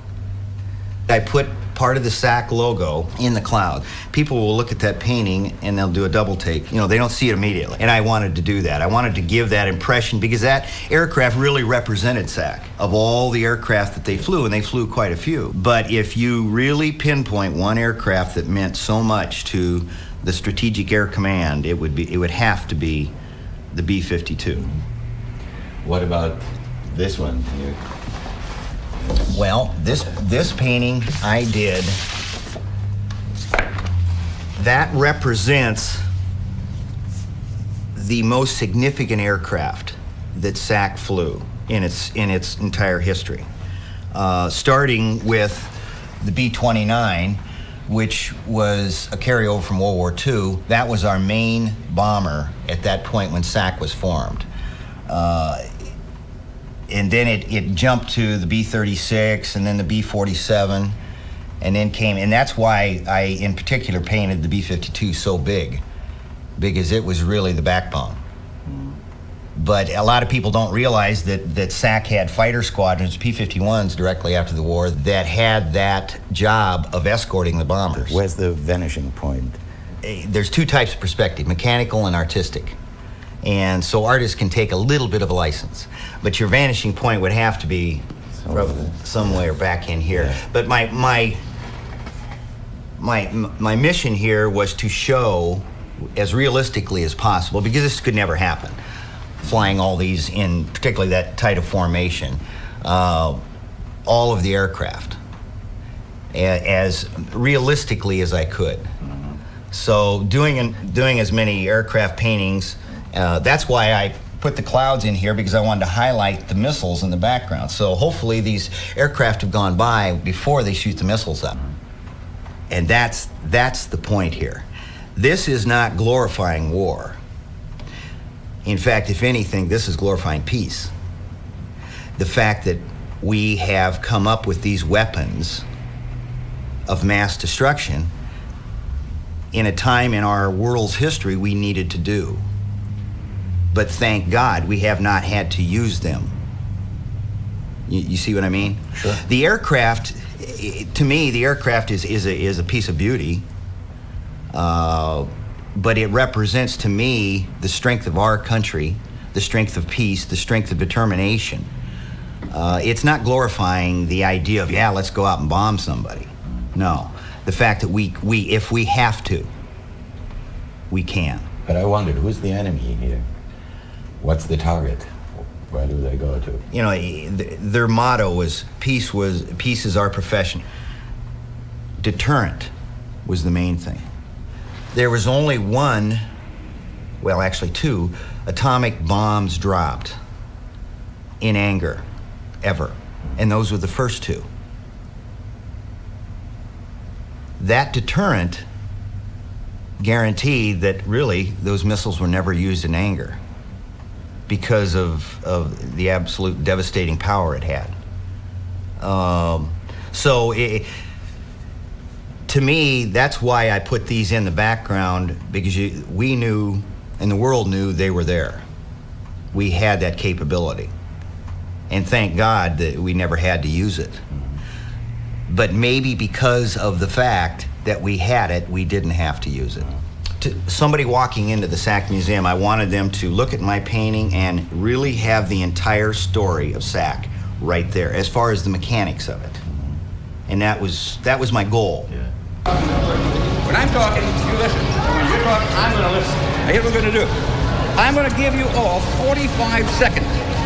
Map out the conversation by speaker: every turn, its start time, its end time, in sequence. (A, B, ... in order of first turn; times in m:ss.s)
0:01.1-0:23.1 A
0:23.7-0:24.7 A
0:25.8-0:27.8 B
0:29.3-0:32.0 A
0:34.6-0:36.0 A
0:37.9-0:43.5 A
0:44.1-0:54.5 A
0:55.1-0:55.7 A
0:56.9-1:01.0 A
1:01.6-1:05.8 A
1:06.6-1:08.2 A
1:08.7-1:08.9 B
1:09.6-1:18.2 A
1:17.9-1:19.6 B
1:20.0-1:22.8 A
1:23.4-1:31.4 A
1:28.4-1:29.4 B
1:33.0-1:38.8 A
1:39.4-1:43.4 A
1:44.0-1:45.2 A
1:46.3-1:48.9 A
1:49.0-1:49.3 B
1:49.7-2:01.6 A
2:02.7-2:07.2 A
2:08.6-2:10.9 A
2:12.2-2:15.6 A
2:16.9-2:18.1 A
2:19.5-2:22.4 A
2:23.7-2:26.4 A
2:27.9-2:33.4 A
2:28.9-2:29.2 B
2:34.5-2:41.7 A
2:42.5-2:49.5 A
2:50.9-2:51.5 A
2:51.6-2:53.3 B
2:54.2-2:56.6 B
2:56.7-3:00.6 A
3:02.0-3:02.7 A
3:03.2-3:04.0 A
3:04.9-3:06.2 A
3:07.2-3:10.2 A
3:11.4-3:12.1 A
3:12.6-3:14.5 A
3:17.6-3:18.6 A
3:20.0-3:23.4 A
3:24.5-3:28.0 A
3:29.0-3:30.9 A
3:32.5-3:38.6 A
3:39.5-3:40.9 A
3:41.9-3:44.2 A
3:45.5-3:49.9 A
3:50.4-3:59.6 A
3:59.6-4:00.0 B
4:00.5-4:02.1 A
4:03.6-4:07.3 C
4:08.0-4:10.3 C